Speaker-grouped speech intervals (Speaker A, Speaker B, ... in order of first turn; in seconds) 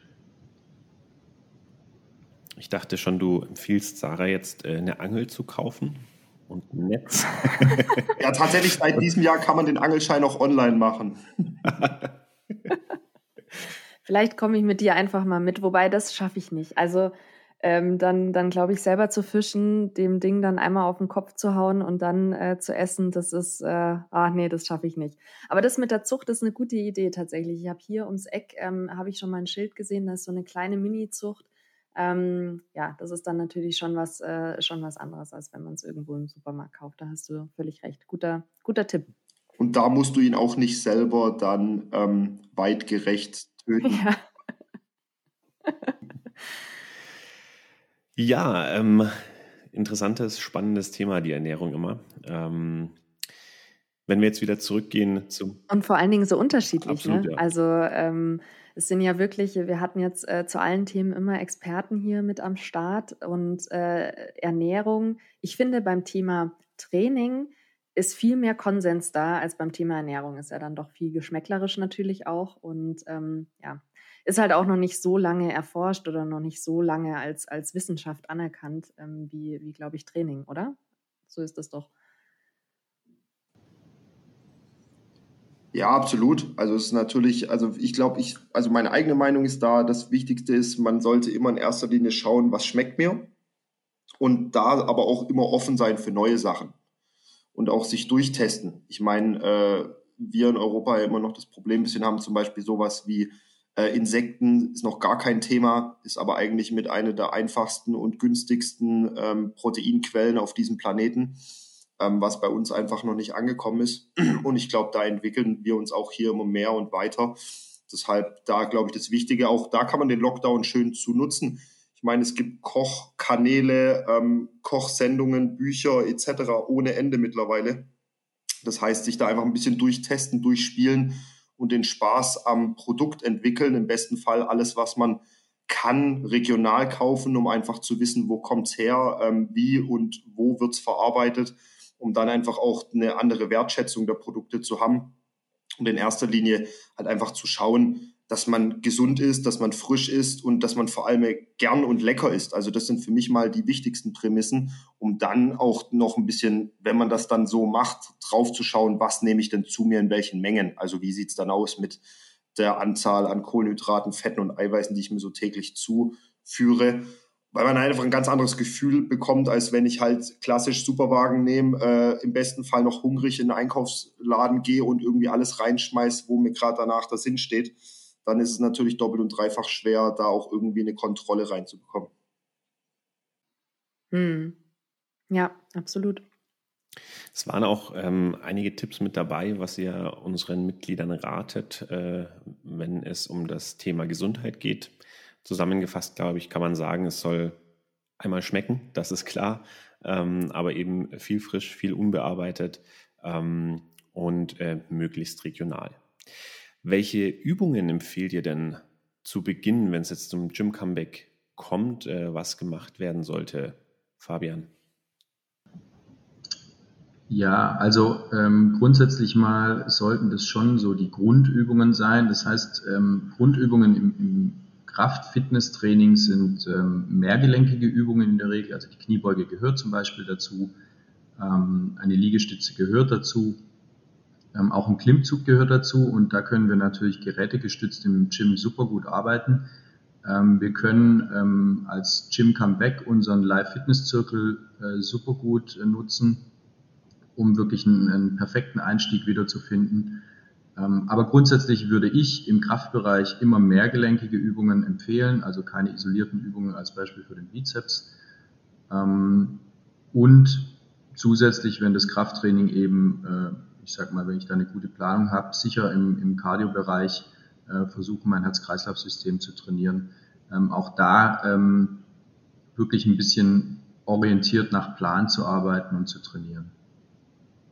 Speaker A: 2.6-8.1, 48.2-53.0, 54.1-55.6, 56.8-57.4, 187.3-197.6, 198.2-206.0, 206.8-214.7
Speaker B: 8.2-11.2, 39.6-44.0, 85.7-93.3, 94.2-96.7, 97.5-111.4, 112.0-127.9, 128.6-145.1, 145.8-162.0, 162.5-182.1
Speaker C: 14.0-39.1, 43.8-44.2, 45.6-45.9, 55.7-80.8, 81.3-81.9, 184.1-184.5, 185.3-186.2
Speaker D: 217.3-230.8, 231.4-233.6, 234.5-239.7, 240.2-246.5, 247.3-258.1, 258.9-272.1, 272.7-276.7